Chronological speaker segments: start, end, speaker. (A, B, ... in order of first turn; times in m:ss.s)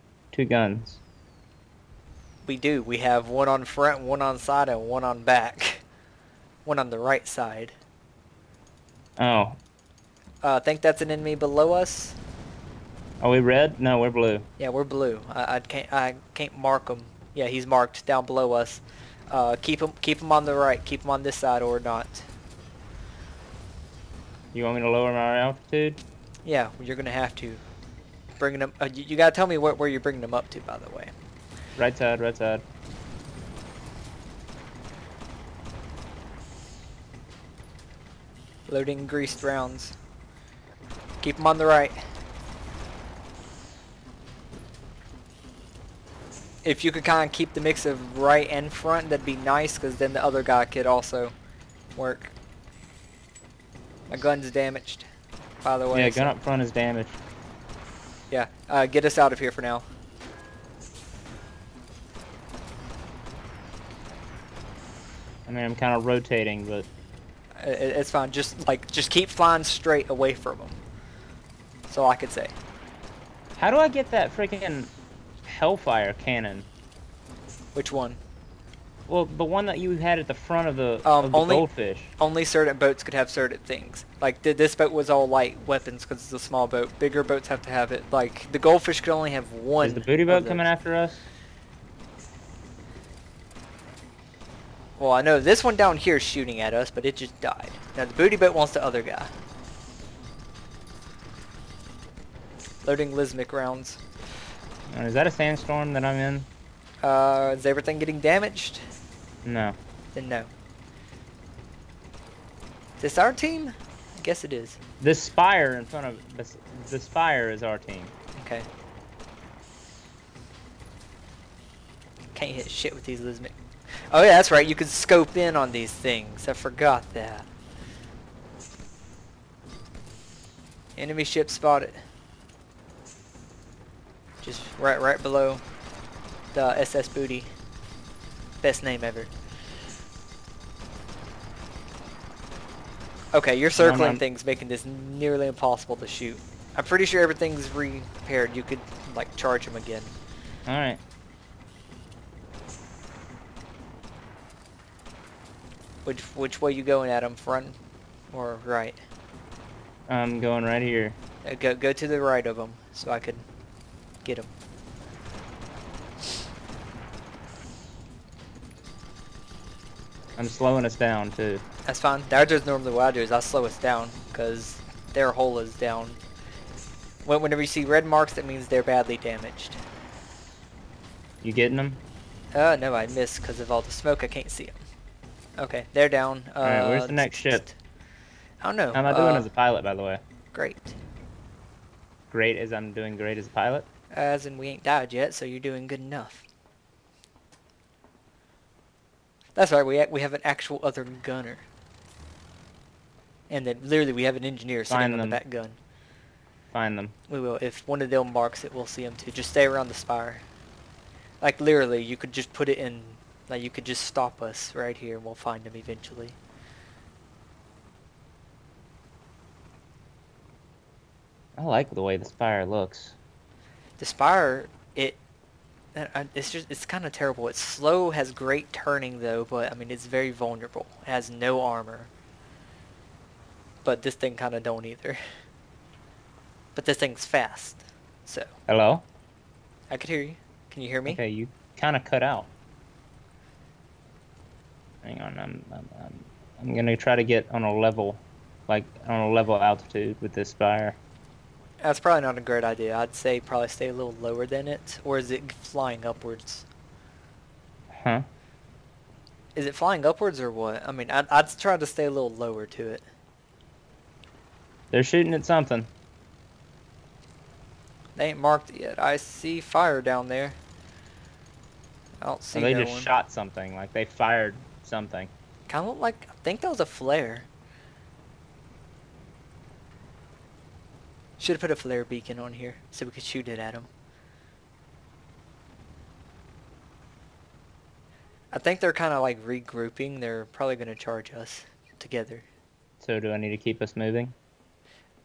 0:00.3-0:01.0 A
0:02.4-0:05.8 B
0:06.6-0:07.7 B
0:09.2-0:09.6 A
0:10.4-0:12.2 B
0:13.2-0:14.5 A
0:14.6-0:22.3 B
0:24.5-0:26.0 A
0:26.4-0:27.6 B
0:28.4-0:31.1 B
0:31.8-0:32.6 A
0:38.7-0:40.0 B
0:41.2-0:42.0 B
0:46.6-0:51.3 B
0:52.0-0:52.3 B
0:54.1-0:55.1 B
0:55.6-0:56.3 B
0:55.9-0:57.2 A
0:58.3-0:59.8 B
1:05.5-1:06.9 A
1:07.6-1:10.8 B
1:11.9-1:12.6 B
1:13.6-1:14.9 A
1:15.4-1:16.7 A
1:17.7-1:18.2 B
1:19.1-1:22.1 A
1:21.0-1:30.7 B
1:29.8-1:31.2 A
1:35.0-1:39.3 B
1:42.8-1:44.0 B
1:44.9-1:46.5 A
1:47.0-1:48.8 B
1:49.4-1:49.8 A
1:50.1-1:50.5 B
1:53.0-1:54.8 B
1:55.0-1:58.1 A
1:58.4-1:58.7 B
2:02.3-2:03.5 B
2:04.1-2:07.5 B
2:11.0-2:12.0 B
2:14.4-2:15.6 B
2:16.5-2:17.5 B
2:18.6-2:19.3 B
2:23.3-2:30.1 B
2:23.8-2:24.2 A
2:30.6-2:31.0 A
2:36.0-2:37.8 B
2:38.3-2:39.0 B
2:40.1-2:41.2 A
2:41.4-2:43.4 B
2:44.2-2:44.5 B
2:50.4-2:51.6 A
2:51.8-2:56.2 B
2:57.2-2:59.8 B
3:01.4-3:02.0 A
3:02.5-3:04.8 B
3:05.6-3:07.8 B
3:06.6-3:07.6 A
3:08.6-3:09.5 B
3:08.9-3:10.2 A
3:10.5-3:11.0 B
3:12.3-3:13.8 A
3:14.1-3:16.4 B
3:19.6-3:21.6 B
3:23.5-3:25.8 B
3:24.9-3:25.4 A
3:26.7-3:27.1 A
3:27.3-3:30.4 B
3:31.4-3:36.4 B
3:41.6-3:43.2 A
3:44.0-3:45.2 B
3:45.9-3:52.1 B
3:53.8-3:55.2 B
3:56.8-3:58.5 B
3:58.7-3:59.0 A
3:59.9-4:01.2 B
4:01.1-4:02.5 A
4:05.0-4:11.0 A
4:11.8-4:16.6 B
4:17.9-4:18.2 A
4:19.6-4:23.0 B
4:24.9-4:25.9 A
4:28.2-4:30.6 B
4:32.2-4:33.1 B
4:32.5-4:35.3 A
4:35.7-4:37.5 B
4:41.4-4:43.9 B
4:48.5-4:52.5 B
4:53.0-4:54.3 A